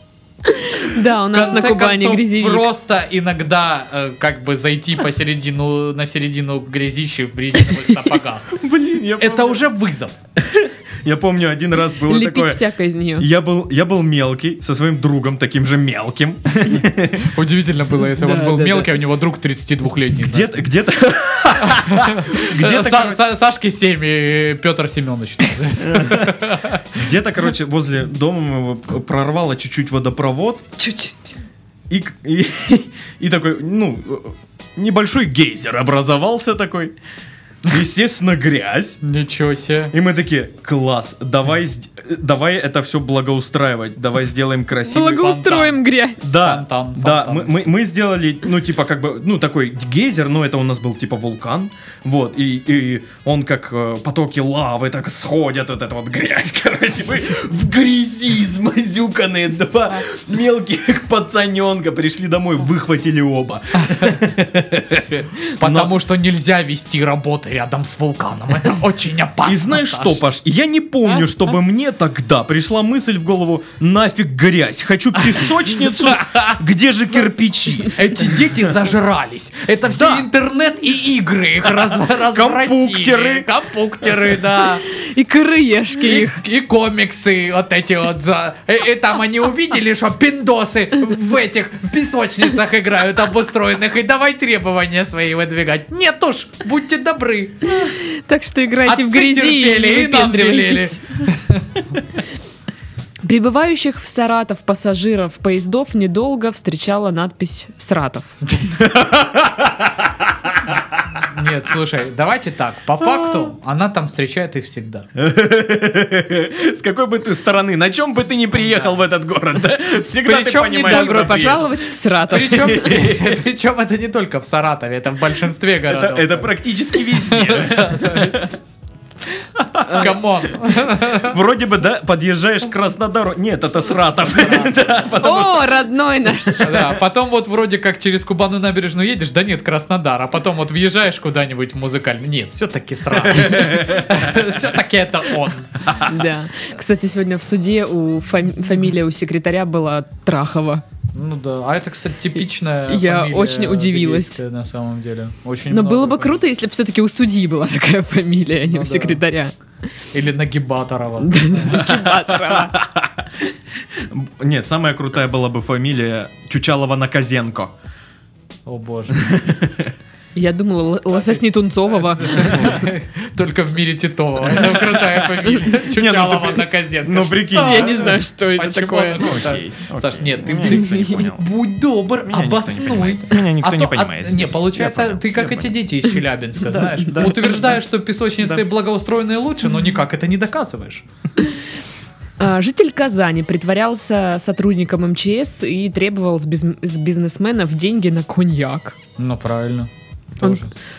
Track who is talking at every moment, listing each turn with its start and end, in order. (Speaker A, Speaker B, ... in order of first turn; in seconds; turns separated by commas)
Speaker A: 0.4-2.7, Speaker B: 1.3-8.5, Speaker C: 8.5-9.6, Speaker B: 9.2-10.1, Speaker C: 10.3-12.6, Speaker A: 12.0-13.3, Speaker C: 13.2-17.3, Speaker B: 17.2-20.5, Speaker A: 18.0-19.0, Speaker C: 20.2-23.2, Speaker B: 21.7-26.9, Speaker C: 25.8-26.4, Speaker C: 26.9-30.8, Speaker A: 30.8-31.1, Speaker C: 31.9-36.9, Speaker C: 37.6-39.0, Speaker B: 39.0-39.9, Speaker C: 39.9-45.1, Speaker A: 44.9-46.3, Speaker B: 44.9-47.7, Speaker C: 46.2-65.1, Speaker B: 65.0-70.2, Speaker C: 65.6-65.9, Speaker C: 69.4-78.0, Speaker B: 75.7-76.6, Speaker B: 77.9-84.8, Speaker C: 79.9-80.3, Speaker C: 81.7-83.5, Speaker A: 84.8-86.4, Speaker B: 86.0-98.0, Speaker A: 97.8-101.0, Speaker B: 98.8-101.8, Speaker A: 103.2-108.3, Speaker B: 108.5-108.8, Speaker C: 108.8-110.8, Speaker B: 111.2-115.1, Speaker C: 113.0-113.5, Speaker C: 115.2-121.7, Speaker B: 118.6-118.9, Speaker B: 120.2-121.6, Speaker A: 120.8-122.9, Speaker B: 122.3-126.5, Speaker C: 122.4-123.4, Speaker C: 125.9-128.5, Speaker B: 127.1-128.6, Speaker C: 129.6-130.1, Speaker B: 129.8-131.3, Speaker C: 130.6-135.8, Speaker B: 133.9-135.2, Speaker A: 135.2-136.8, Speaker B: 136.6-145.9, Speaker C: 136.6-136.9, Speaker C: 143.2-144.5, Speaker C: 145.8-146.1, Speaker A: 146.0-150.8, Speaker B: 151.1-156.4, Speaker A: 152.9-154.4, Speaker A: 155.7-159.5, Speaker B: 158.7-159.2, Speaker B: 160.1-161.9, Speaker A: 161.2-162.8, Speaker C: 161.8-167.7, Speaker B: 168.7-169.4, Speaker C: 169.1-169.9, Speaker A: 170.3-172.8, Speaker B: 171.1-191.0, Speaker C: 172.4-172.9, Speaker C: 174.4-181.5, Speaker A: 177.5-179.4, Speaker A: 180.6-181.2, Speaker C: 182.2-185.8, Speaker C: 186.6-187.8, Speaker A: 192.4-198.9, Speaker B: 199.2-200.7